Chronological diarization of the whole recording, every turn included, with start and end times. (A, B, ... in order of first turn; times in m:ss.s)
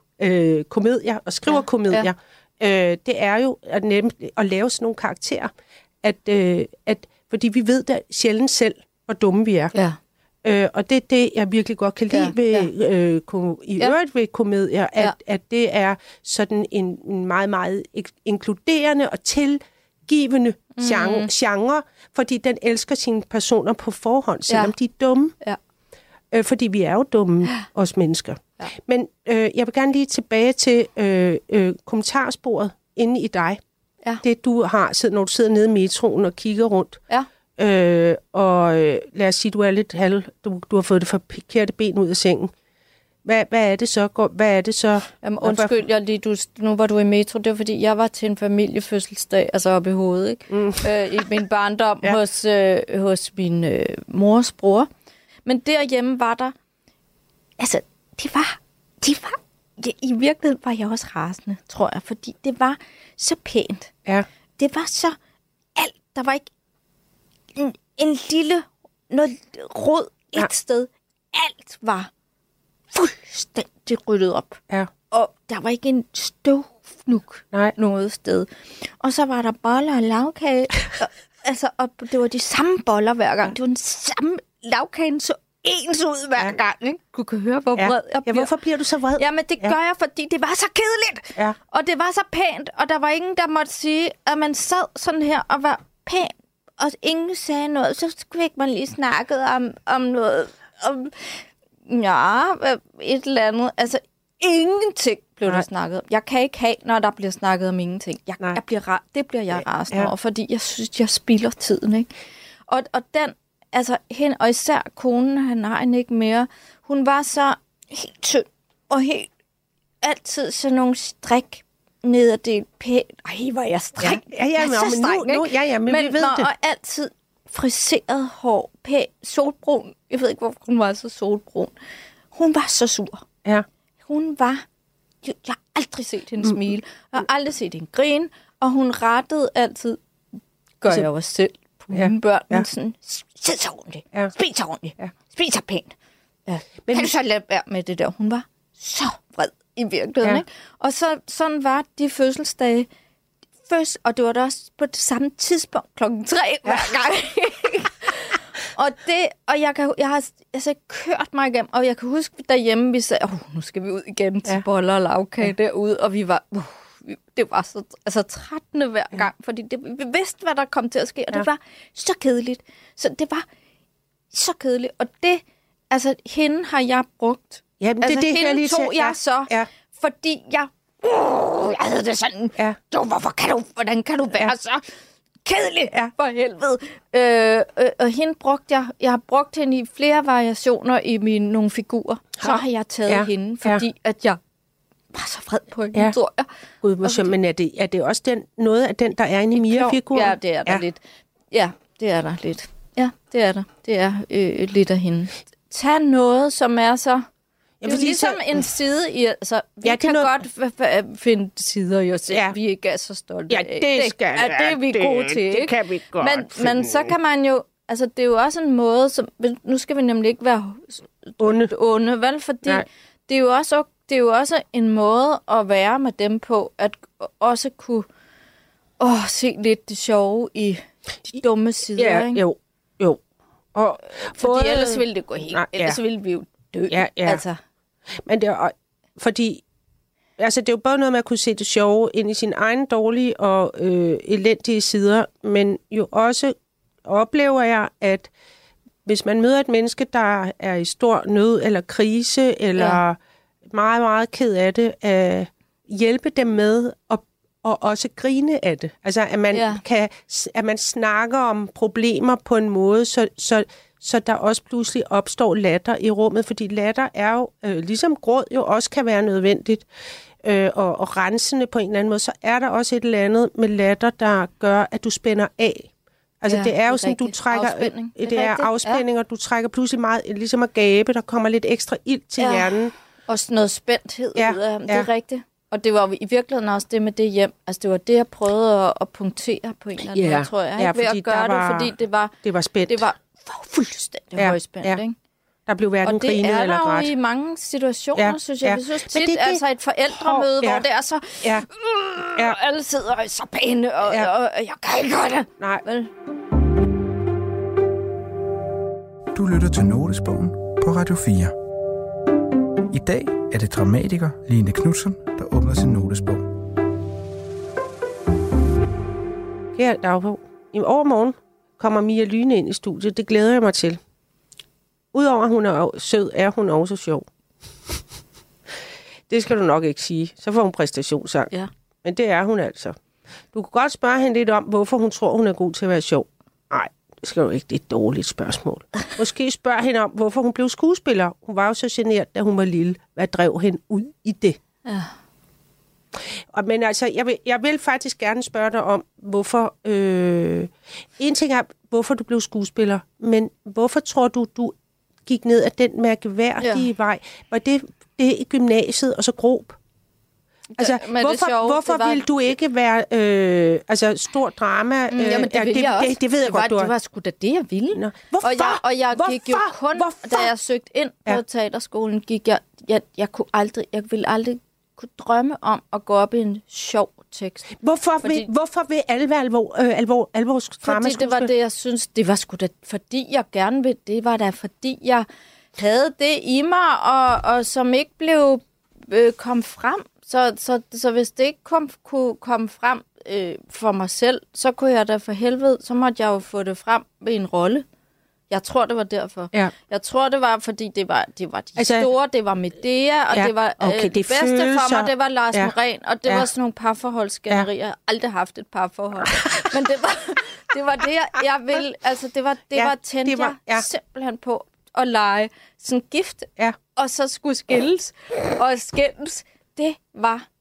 0:00.2-0:09.7 A
0:01.5-0:02.1 B
0:10.4-0:25.3 A
0:12.1-0:12.7 B
0:20.8-0:21.3 B
0:26.3-0:33.6 A
0:34.2-0:37.0 A
0:37.6-0:42.5 A
0:43.2-0:45.8 A
0:45.2-0:54.9 B
0:50.5-0:50.9 A
0:55.4-0:56.5 B
0:57.6-1:03.9 B
1:04.6-1:05.2 B
1:05.8-1:06.5 B
1:07.6-1:12.1 B
1:12.9-1:14.6 B
1:15.1-1:28.5 B
1:27.8-1:29.7 A
1:29.2-1:52.1 B
1:49.5-1:50.1 A
1:52.7-1:59.3 B
2:00.0-2:11.7 B
2:04.0-2:06.5 A
2:12.3-2:13.2 B
2:14.0-2:14.6 B
2:15.2-2:20.0 B
2:20.8-2:25.9 B
2:21.9-2:22.7 A
2:26.5-2:32.9 B
2:26.8-2:27.1 A
2:33.6-2:53.4 B
2:54.3-3:04.8 B
2:57.8-2:59.7 A
3:05.4-3:14.4 B
3:12.4-3:13.8 A
3:15.1-3:16.5 B
3:16.8-3:20.8 A
3:17.0-3:17.3 B
3:19.5-3:27.3 B
3:27.8-3:28.6 A
3:27.8-3:48.1 B
3:29.8-3:30.3 A
3:32.3-3:32.6 A
3:33.5-3:37.2 A
3:41.4-3:41.7 A
3:49.0-3:52.4 B
3:52.0-3:53.2 A
3:53.7-3:56.0 A
3:54.2-3:57.6 B
3:56.9-3:57.4 A
3:58.2-3:59.6 A
4:00.4-4:08.3 A
4:09.0-4:29.8 A
4:12.8-4:13.0 B
4:19.5-4:19.8 B
4:30.4-4:42.9 A
4:36.5-4:39.0 B
4:42.4-4:42.7 B
4:43.3-4:52.3 B
4:44.4-4:45.1 A
4:50.1-4:53.1 A
4:52.9-4:55.2 B
4:54.3-4:55.0 A
4:55.7-4:57.1 A
4:56.0-5:06.1 B
4:58.2-5:00.8 A
5:05.6-5:05.8 A
5:09.3-5:11.5 C
5:12.9-5:16.4 C
5:19.7-5:24.0 A
5:25.1-5:27.3 A
5:29.3-5:31.5 A
5:32.0-5:33.0 A
5:33.5-5:44.6 A
5:44.8-5:45.1 B
5:46.5-5:54.7 A
5:55.2-5:59.8 A
5:56.6-5:56.9 B
6:00.7-6:02.2 B
6:00.8-6:06.9 A
6:05.1-6:18.5 B
6:07.9-6:10.5 A
6:17.8-6:21.5 A
6:20.8-6:37.8 B
6:38.5-7:00.4 B
6:41.8-6:42.1 A
6:43.3-6:45.7 A
6:52.7-6:53.8 A